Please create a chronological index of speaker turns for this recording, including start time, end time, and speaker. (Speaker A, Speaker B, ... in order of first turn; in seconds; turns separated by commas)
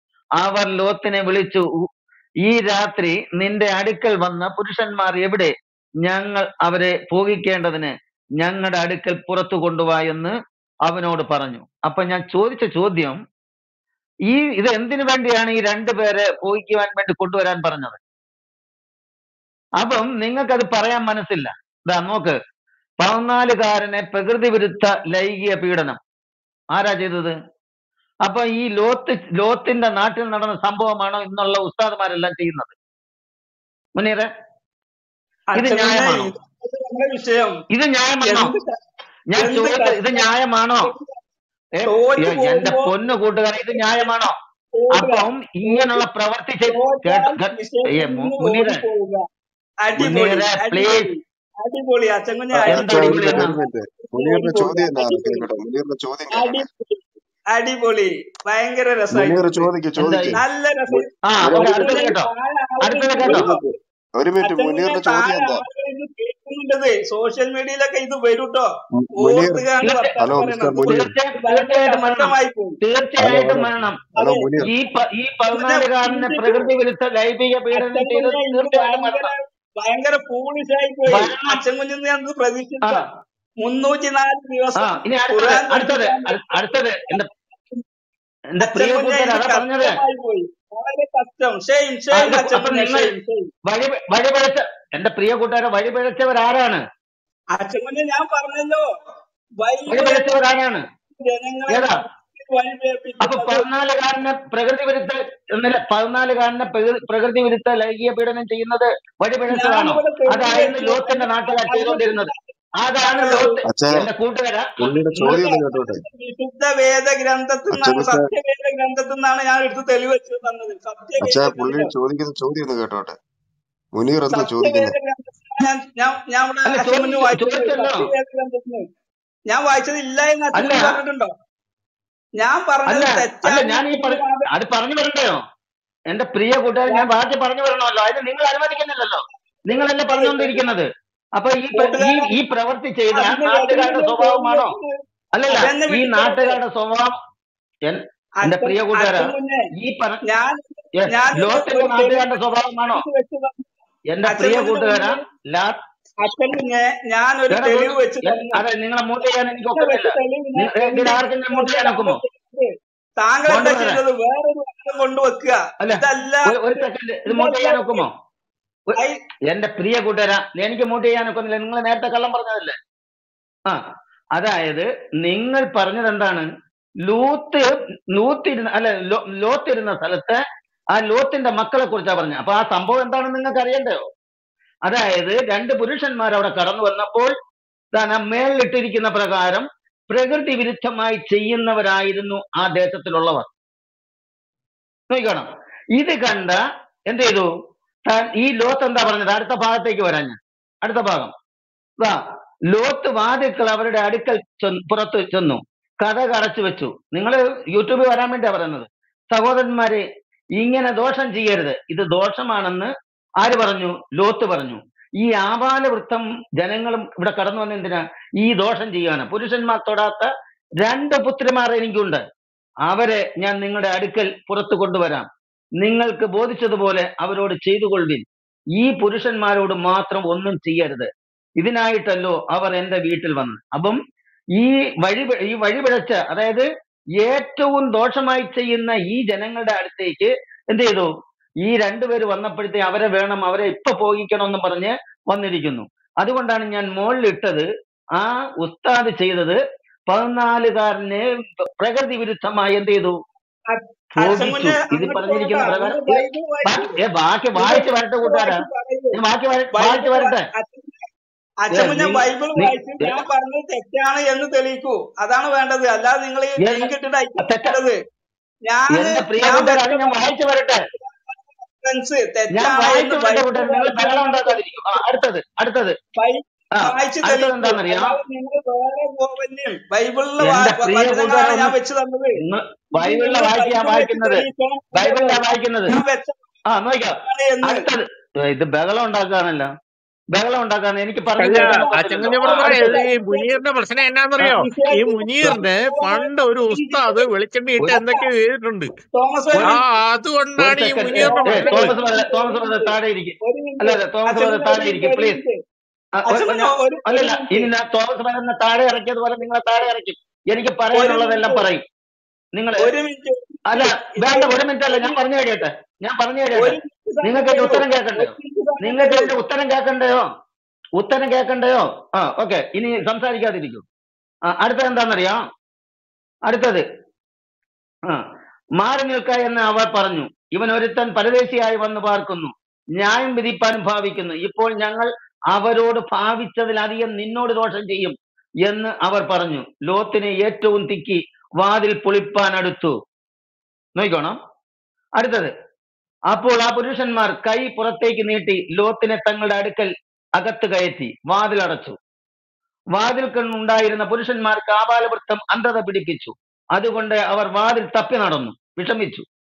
Speaker A: 0.4-1.7, Speaker A: 2.4-5.5, Speaker A: 6.0-10.3, Speaker A: 10.9-13.2, Speaker A: 14.3-18.0, Speaker A: 19.8-22.4, Speaker A: 23.0-26.0, Speaker A: 26.8-27.4, Speaker A: 28.2-32.7, Speaker A: 34.0-34.3, Speaker B: 35.5-37.6, Speaker A: 35.5-36.3, Speaker A: 37.7-38.5, Speaker B: 38.3-38.8, Speaker A: 39.3-40.9, Speaker B: 39.4-40.3, Speaker B: 40.8-41.1, Speaker A: 41.8-44.4, Speaker B: 41.9-42.9, Speaker B: 43.8-44.1, Speaker B: 44.7-46.0, Speaker A: 44.9-48.8, Speaker B: 46.6-49.2, Speaker B: 49.8-55.5, Speaker A: 50.0-51.1, Speaker C: 52.5-56.6, Speaker A: 52.7-53.6, Speaker B: 56.3-57.0, Speaker B: 57.5-59.7, Speaker C: 59.1-62.1, Speaker A: 60.0-60.4, Speaker B: 60.3-63.6, Speaker A: 61.2-62.3, Speaker A: 62.8-63.5, Speaker C: 63.2-65.6, Speaker B: 64.4-72.8, Speaker C: 69.0-71.1, Speaker A: 69.8-70.1, Speaker A: 70.9-74.0, Speaker C: 73.2-74.7, Speaker B: 74.2-74.5, Speaker A: 74.6-79.3, Speaker B: 75.5-76.7, Speaker B: 77.7-83.0, Speaker A: 81.1-81.6, Speaker B: 83.6-87.2, Speaker A: 84.8-87.3, Speaker A: 88.6-90.0, Speaker B: 88.6-93.5, Speaker A: 92.1-93.1, Speaker A: 93.7-96.8, Speaker B: 97.5-98.8, Speaker B: 99.6-100.4, Speaker A: 99.9-100.8, Speaker B: 101.1-103.7, Speaker A: 101.7-102.0, Speaker A: 103.2-114.7, Speaker B: 109.5-112.5, Speaker B: 113.0-113.6, Speaker C: 113.7-114.1, Speaker C: 114.8-116.0, Speaker B: 115.1-121.9, Speaker C: 117.7-118.3, Speaker C: 121.2-123.2, Speaker C: 124.0-124.9, Speaker B: 124.3-128.8, Speaker A: 126.7-128.1, Speaker B: 129.5-131.3, Speaker A: 130.6-131.0, Speaker B: 132.4-134.5, Speaker A: 132.9-135.4, Speaker A: 136.1-144.7, Speaker B: 139.7-140.6, Speaker B: 141.7-142.4, Speaker B: 143.1-146.6, Speaker A: 145.4-147.2, Speaker A: 147.9-150.2, Speaker B: 148.4-149.7, Speaker B: 150.2-153.7, Speaker A: 151.0-153.1, Speaker A: 154.1-155.8, Speaker B: 154.3-155.2, Speaker B: 156.2-158.6, Speaker A: 157.5-162.2, Speaker B: 159.2-168.1, Speaker A: 163.5-164.0, Speaker A: 165.8-168.1, Speaker A: 168.9-172.8, Speaker A: 174.4-176.5, Speaker A: 177.1-180.4, Speaker A: 180.9-184.0, Speaker A: 184.9-187.3, Speaker A: 187.9-193.5, Speaker A: 195.1-197.5, Speaker A: 198.1-201.3, Speaker A: 202.7-210.0, Speaker A: 210.6-220.3, Speaker A: 220.8-222.2, Speaker A: 222.9-225.3, Speaker A: 225.8-228.2, Speaker A: 228.8-234.0, Speaker A: 234.6-236.7, Speaker A: 237.2-241.1, Speaker A: 241.6-253.2, Speaker B: 253.7-257.0, Speaker A: 254.2-258.6, Speaker B: 257.6-259.2, Speaker A: 259.1-260.5, Speaker B: 259.8-261.1, Speaker B: 261.6-268.0, Speaker A: 261.7-263.2, Speaker A: 266.6-267.8, Speaker B: 268.7-270.3, Speaker A: 268.9-270.8, Speaker B: 270.9-275.0, Speaker A: 272.5-276.0, Speaker B: 276.2-282.4, Speaker A: 276.8-278.2, Speaker A: 280.4-281.8, Speaker A: 282.4-284.4, Speaker B: 283.0-286.4, Speaker A: 284.9-285.9, Speaker A: 286.7-289.7, Speaker B: 287.2-287.9, Speaker A: 290.3-293.1, Speaker D: 291.4-298.9, Speaker B: 291.4-293.6, Speaker B: 294.6-297.3, Speaker A: 297.8-298.1, Speaker B: 297.9-298.2, Speaker B: 299.1-299.8, Speaker A: 299.5-299.8, Speaker D: 299.6-301.9, Speaker A: 300.6-305.4, Speaker B: 301.1-305.6, Speaker A: 306.2-311.8, Speaker B: 306.3-307.7, Speaker B: 310.9-311.7, Speaker A: 312.6-312.9, Speaker B: 312.8-315.2, Speaker A: 313.7-320.3, Speaker B: 316.6-319.3, Speaker A: 321.0-323.9, Speaker A: 324.5-325.4, Speaker A: 326.5-326.9, Speaker A: 328.8-343.0, Speaker A: 344.0-344.4, Speaker A: 345.2-345.5, Speaker A: 346.3-352.0, Speaker A: 353.0-359.3